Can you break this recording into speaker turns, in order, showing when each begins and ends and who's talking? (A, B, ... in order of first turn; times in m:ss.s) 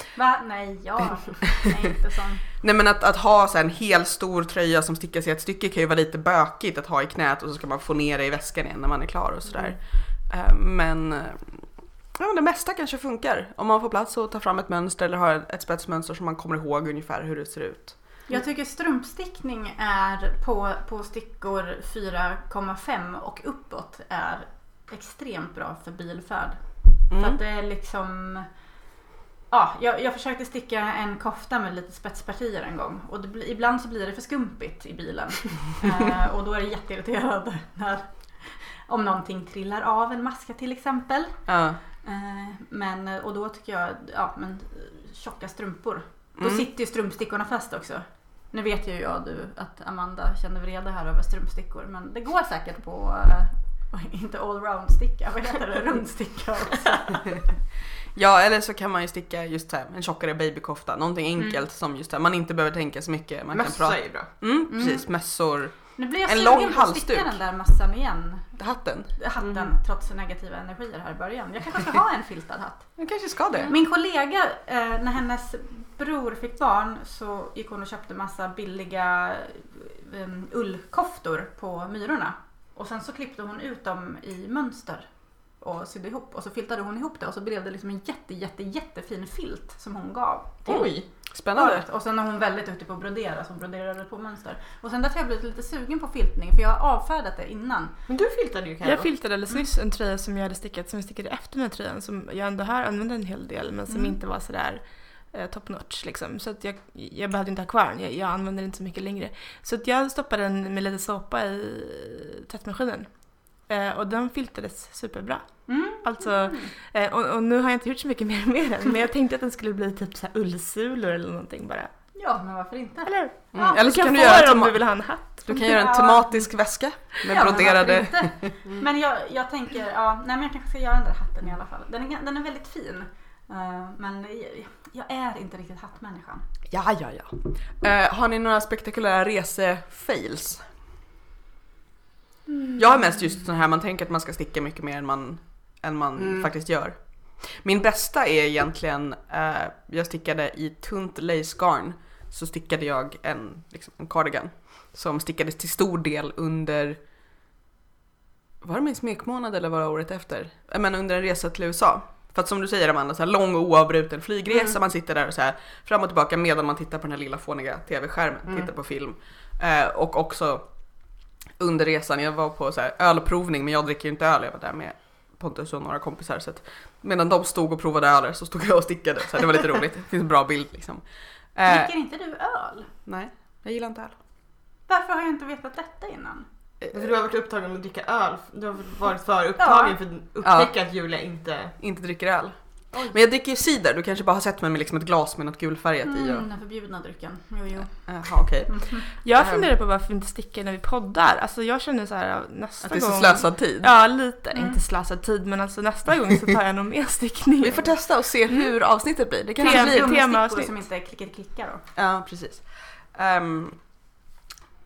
0:00.2-0:02.4 A
0:02.6-0:18.1 B
0:18.3-0:28.5 A
0:27.1-0:27.4 B
0:29.5-0:41.4 A
0:41.5-0:41.8 B
0:42.0-0:57.5 A
0:46.4-0:46.6 B
0:58.2-1:07.4 B
1:03.5-1:04.3 C
1:04.7-1:05.1 A
1:06.0-1:08.6 A
1:08.6-1:09.1 B
1:09.2-1:13.0 A
1:13.0-1:13.7 B
1:13.6-1:38.0 A
1:30.6-1:31.0 C
1:31.3-1:31.8 B
1:38.1-1:39.1 C
1:38.8-2:01.9 D
1:43.9-1:44.2 A
1:55.7-1:56.7 A
2:02.2-2:03.8 A
2:03.0-2:05.5 D
2:03.5-2:08.5 B
2:05.5-2:06.5 A
2:07.2-2:16.4 A
2:16.7-2:20.6 B
2:22.8-2:37.0 B
2:26.2-2:26.5 C
2:38.6-2:50.7 B
2:51.6-3:01.0 B
3:01.6-3:01.9 B
3:01.7-3:02.9 A
3:03.0-3:04.1 B
3:04.9-3:06.5 A
3:06.9-3:11.8 C
3:09.6-3:10.0 A
3:10.4-3:10.7 B
3:11.8-3:12.6 B
3:13.1-3:16.5 B
3:16.0-3:19.0 A
3:18.1-3:19.7 B
3:19.2-3:28.0 D
3:22.8-3:23.9 B
3:27.6-3:30.1 B
3:29.6-3:31.8 A
3:29.6-3:30.8 D
3:32.0-3:33.8 B